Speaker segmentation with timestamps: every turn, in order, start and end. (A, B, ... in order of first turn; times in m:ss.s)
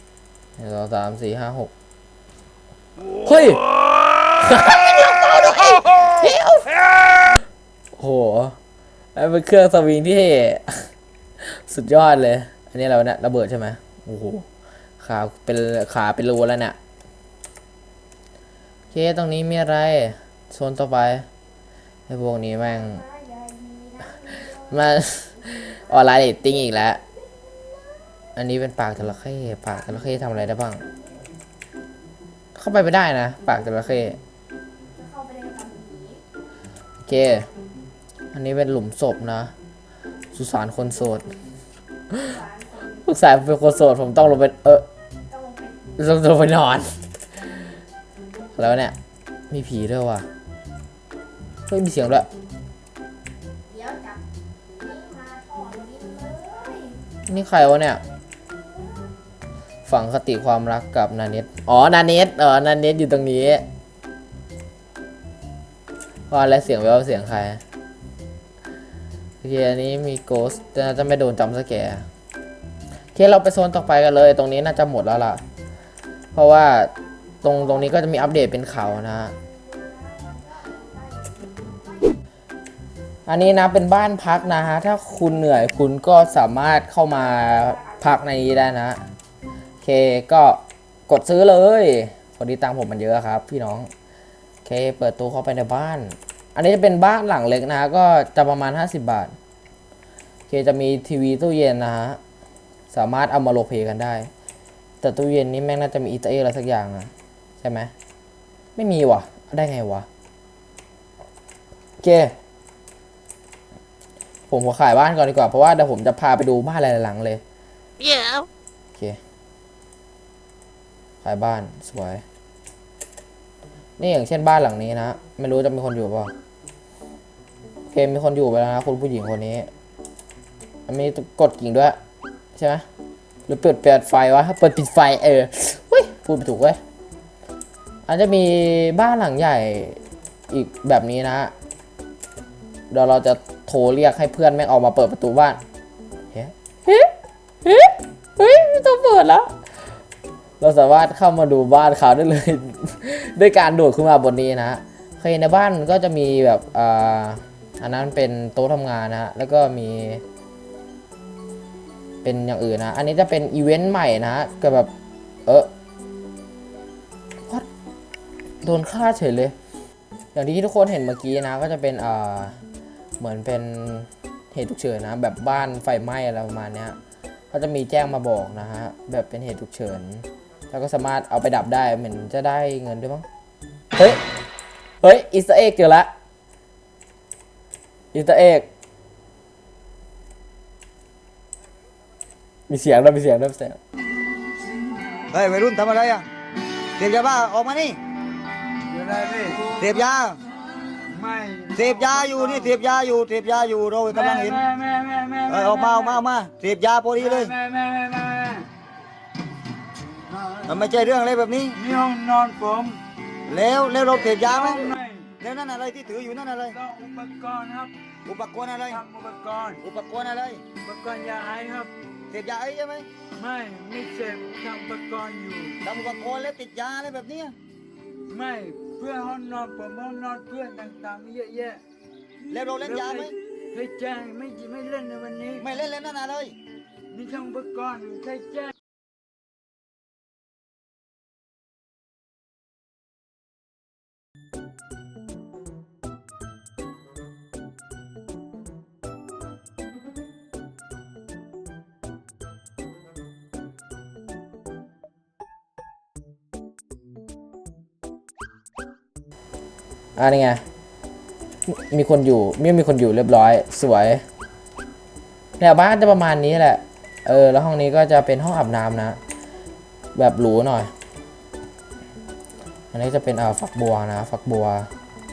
0:00.6-0:01.7 A
0:03.1-0:03.7 A
0:04.3-0:06.8 A
0:08.0-0:08.6 A
0:09.2-0:10.9 A
0:11.4-0:14.4 A
0:15.0-0:16.8 A
0:18.9-0:21.3 A
0:22.1-0:23.1 A
0:23.1-0:24.1 B
0:24.1-0:27.0 A
0:28.4-0:30.9 A
0:32.6-0:34.2 A
0:35.0-0:36.2 B
0:37.0-0:37.5 A
0:38.3-0:39.5 A
0:40.3-0:41.3 A
0:42.1-0:44.8 A
0:42.4-0:42.7 B
0:45.3-0:45.8 B
0:46.0-0:46.9 A
0:48.6-0:49.0 A
0:49.5-0:50.3 A
0:51.7-0:52.3 A
0:53.7-0:57.0 B
0:57.3-0:58.0 A
0:59.9-1:03.6 A
1:06.3-1:07.6 A
1:09.4-1:12.0 A
1:13.1-1:15.4 A
1:16.3-1:19.4 A
1:19.7-1:21.8 B
1:23.3-1:29.0 A
1:29.8-1:33.9 A
1:34.6-1:39.4 A
1:40.5-1:42.2 A
1:42.9-1:44.3 A
1:45.0-1:47.9 A
1:48.8-1:50.1 A
1:52.0-1:52.3 A
1:54.5-1:57.4 A
1:58.0-1:59.2 A
2:01.2-2:02.2 A
2:04.0-2:06.3 A
2:07.9-2:09.7 A
2:10.9-2:12.0 A
2:12.5-2:12.9 A
2:13.5-2:16.8 A
2:18.1-2:21.5 A
2:22.9-2:25.6 A
2:26.3-2:29.5 A
2:30.6-2:40.2 A
2:42.2-2:44.9 A
2:48.6-2:49.6 A
2:50.3-2:52.6 A
2:53.2-2:57.0 A
2:57.5-3:03.2 A
3:04.0-3:04.2 A
3:05.0-3:06.1 A
3:08.1-3:08.7 A
3:12.7-3:13.8 A
3:15.3-3:16.3 C
3:17.0-3:18.0 C
3:18.9-3:20.0 D
3:19.7-3:20.4 C
3:20.8-3:22.7 D
3:21.7-3:24.6 C
3:24.1-3:26.2 D
3:25.5-3:27.5 C
3:27.2-3:28.7 D
3:30.3-3:30.8 D
3:30.7-3:31.8 C
3:31.8-3:33.0 D
3:33.5-3:36.8 C
3:34.3-3:35.3 D
3:36.7-3:37.9 D
3:38.3-3:39.0 C
3:38.9-3:39.8 D
3:39.8-3:40.6 C
3:40.8-3:41.9 D
3:42.3-3:43.1 C
3:43.4-3:45.8 D
3:45.8-3:47.6 C
3:48.3-3:51.8 D
3:52.5-3:53.4 C
3:52.5-3:55.6 D
3:55.6-3:56.6 C
3:57.1-3:58.7 D
4:20.2-4:20.6 A
4:21.7-4:24.2 A
4:25.6-4:29.2 A
4:30.2-4:30.9 A
4:32.9-4:34.9 A